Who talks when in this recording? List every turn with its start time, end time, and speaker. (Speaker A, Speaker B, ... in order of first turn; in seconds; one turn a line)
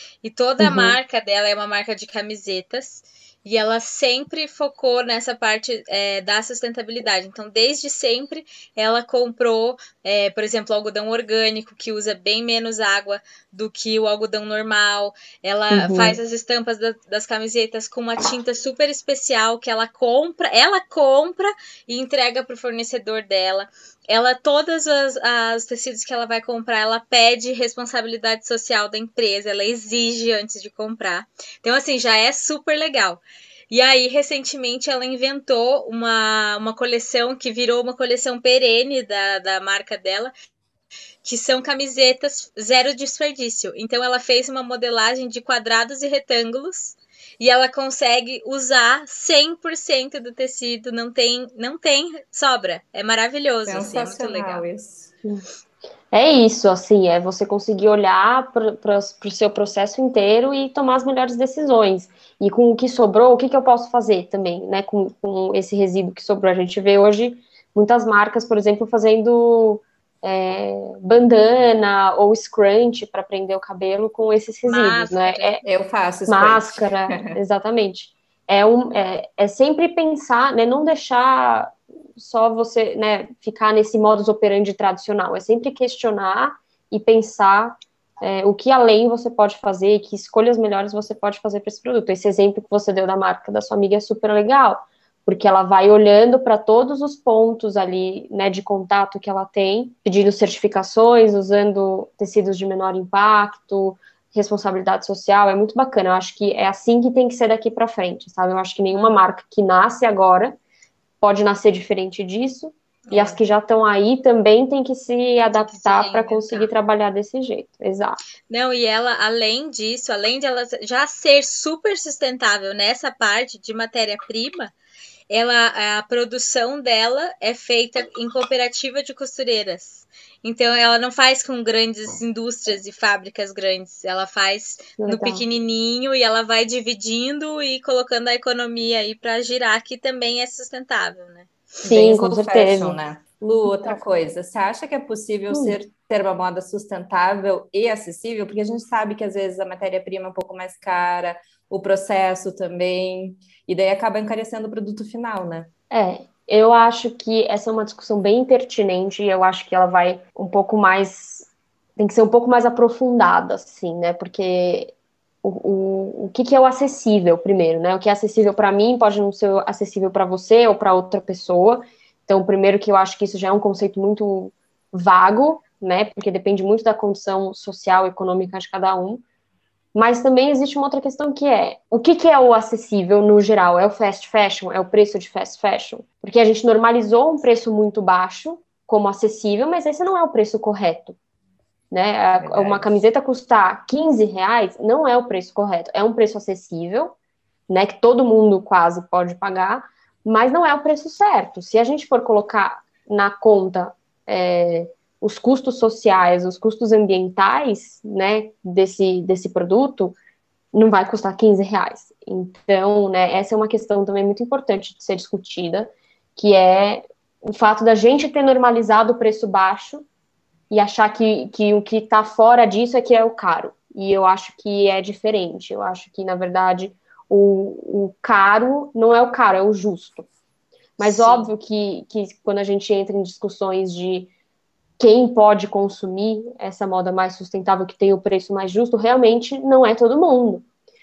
Speaker A: 0.2-40.3
Speaker B: 0.6-1.0
Speaker B: 15.7-16.2
Speaker A: 41.2-54.6
Speaker C: 53.7-55.1
Speaker B: 56.1-75.6
Speaker A: 74.7-75.5
Speaker C: 75.6-77.4
Speaker B: 76.3-110.6
Speaker A: 108.9-109.2
Speaker B: 111.2-118.2
Speaker A: 113.1-113.4
Speaker A: 115.7-116.7
Speaker A: 118.5-124.7
Speaker A: 125.3-141.5
Speaker B: 135.0-135.4
Speaker C: 141.8-155.7
Speaker B: 141.8-143.0
Speaker B: 145.5-145.8
Speaker B: 155.9-179.2
Speaker B: 179.9-191.2
Speaker B: 191.9-197.2
Speaker C: 192.3-192.9
Speaker B: 197.7-210.2
Speaker B: 210.7-220.1
Speaker B: 220.7-230.3
Speaker B: 231.0-234.3
Speaker A: 231.0-231.5
Speaker B: 235.0-240.7